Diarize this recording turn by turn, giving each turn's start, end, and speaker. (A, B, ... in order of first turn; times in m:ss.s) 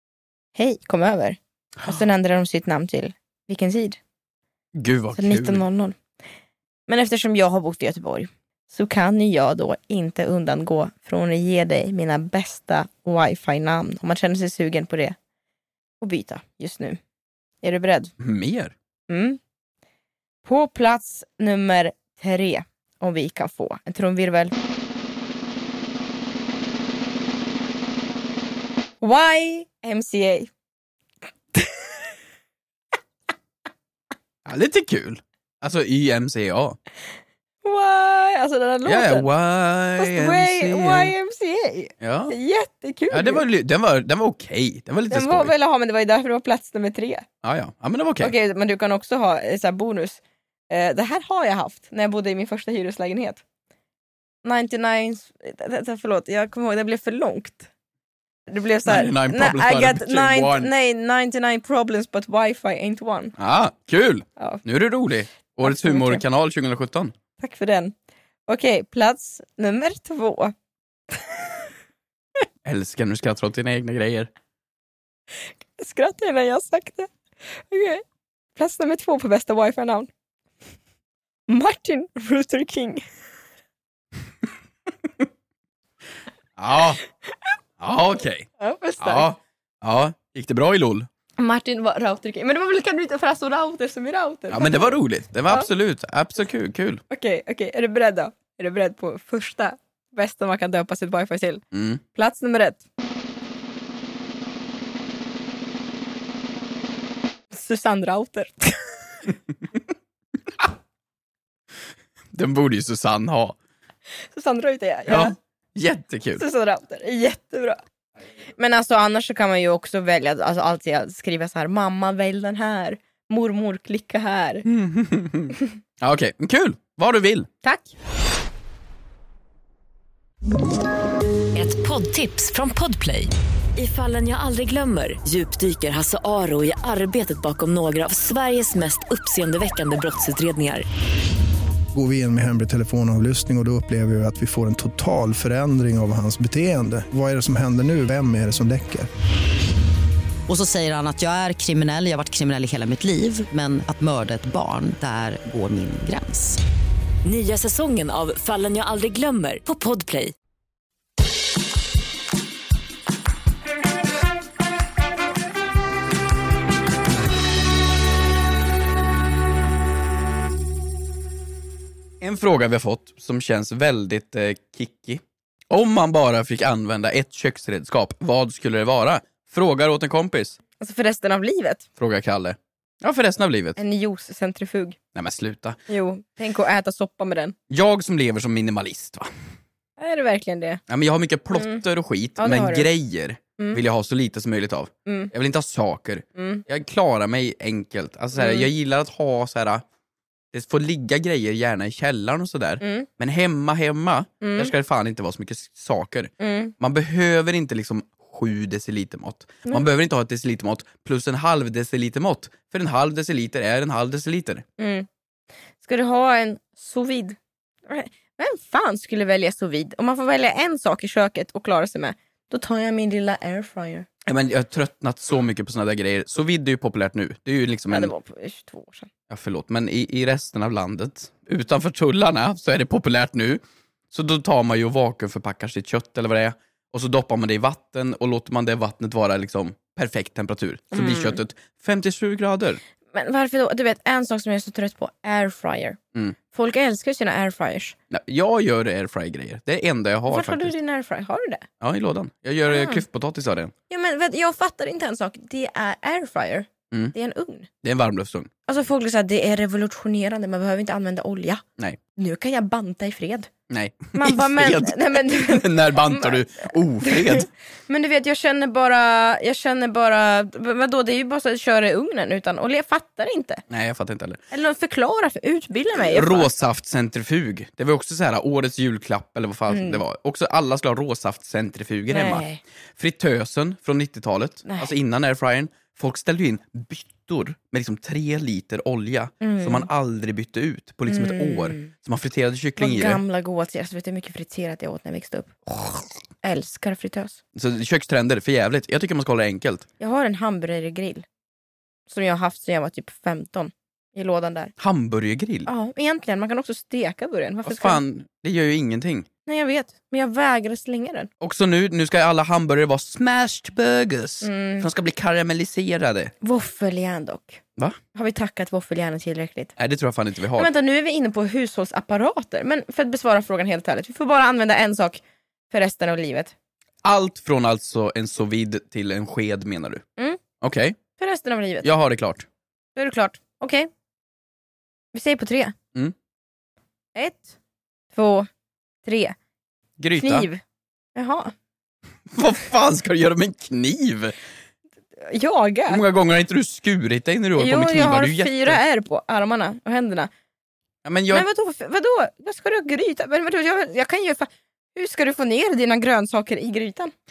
0:00.5-0:04.0 A
0:04.7-0:05.6 B
0:05.1-0:06.0 A
0:06.9-0:15.2 A
0:16.0-0:17.0 A
0:17.6-0:18.1 A
0:18.2-0:18.7 B
0:19.1-0:19.4 A
0:20.4-0:24.5 A
0:29.0-0:30.5 A
0:31.5-0:31.9 A
0:34.4-0:36.8 B
0:37.6-0:39.3 A
0:38.8-0:41.1 B
0:40.0-0:43.4 A
0:42.0-0:42.3 B
0:43.1-0:45.5 B
0:45.1-0:47.2 A
0:47.4-0:48.3 B
0:48.2-0:53.4 A
0:54.4-0:57.7 A
0:58.5-1:03.3 A
0:58.8-1:00.7 B
1:03.4-1:07.1 B
1:05.6-1:06.2 A
1:07.4-1:07.9 A
1:08.5-1:10.5 A
1:11.1-1:11.5 A
1:12.6-1:14.3 B
1:15.8-1:18.0 A
1:18.6-1:20.1 A
1:21.5-1:23.0 A
1:26.6-1:27.0 B
1:27.8-1:28.5 B
1:28.6-1:29.3 A
1:29.0-1:31.1 B
1:31.4-1:35.7 A
1:34.5-1:37.0 B
1:37.1-1:41.6 A
1:41.7-1:42.0 B
1:42.1-1:42.8 A
1:47.5-1:48.8 A
1:52.3-1:53.6 B
1:54.3-1:55.3 A
1:55.1-1:56.4 B
1:56.4-1:57.8 A
1:58.6-2:04.6 A
2:04.6-2:07.5 B
2:07.6-2:07.9 A
2:11.5-2:20.8 C
2:21.9-2:29.1 D
2:30.5-2:36.6 E
2:37.2-2:40.3 C
2:52.2-3:00.6 B
3:00.8-3:01.8 A
3:02.0-3:03.8 B
3:03.8-3:05.0 A
3:05.1-3:05.8 B
3:05.9-3:07.5 A
3:07.7-3:09.3 B
3:10.0-3:10.8 A
3:10.9-3:19.8 B
3:11.5-3:11.8 A
3:12.4-3:12.9 A
3:15.0-3:15.3 A
3:16.4-3:16.6 A
3:18.3-3:18.7 A
3:20.5-3:34.6 B
3:22.8-3:23.1 A
3:24.4-3:24.7 A
3:26.4-3:26.7 A
3:34.8-3:35.1 A
3:35.8-3:44.1 A
3:44.2-3:48.1 B
3:47.9-3:49.1 A
3:49.3-4:02.8 B
4:00.9-4:01.4 A
4:03.1-4:06.0 A
4:06.5-4:07.9 A
4:08.1-4:10.7 B
4:10.3-4:11.6 A
4:11.8-4:13.7 B
4:12.7-4:13.0 A
4:13.9-4:17.7 A
4:17.8-4:18.5 B
4:18.7-4:21.6 A
4:22.1-4:23.5 A
4:23.7-4:27.5 B
4:24.1-4:33.6 A
4:33.7-4:34.4 B
4:34.5-4:36.5 A
4:36.0-4:53.2 B
4:39.7-4:40.0 A
4:42.1-4:42.6 A
4:44.6-4:44.9 A
4:49.4-4:49.9 A
4:51.1-4:51.9 A
4:52.8-4:57.4 A
4:57.5-4:59.8 B
5:00.0-5:01.2 A
5:02.1-5:04.7 A
5:04.8-5:05.7 B
5:05.6-5:08.0 A
5:07.6-5:09.3 B
5:09.4-5:11.3 A
5:11.4-5:16.3 B
5:14.4-5:14.8 A
5:16.4-5:17.6 A
5:18.1-5:19.7 A
5:19.8-5:20.7 B
5:20.6-5:25.2 A
5:25.7-5:26.5 A
5:27.0-5:30.0 B
5:30.6-5:31.0 B
5:31.2-5:31.9 A
5:31.8-5:32.5 B
5:33.0-5:33.9 A
5:35.1-5:35.7 A
5:37.1-5:37.6 A
5:38.1-5:38.5 A
5:39.0-5:39.3 A
5:40.0-5:40.5 B
5:40.1-5:40.6 A
5:41.2-5:41.5 A
5:42.3-5:44.4 B
5:45.2-5:46.0 A
5:45.9-5:48.8 B
5:47.6-5:50.3 A
5:51.0-5:51.5 B
5:51.3-5:57.1 A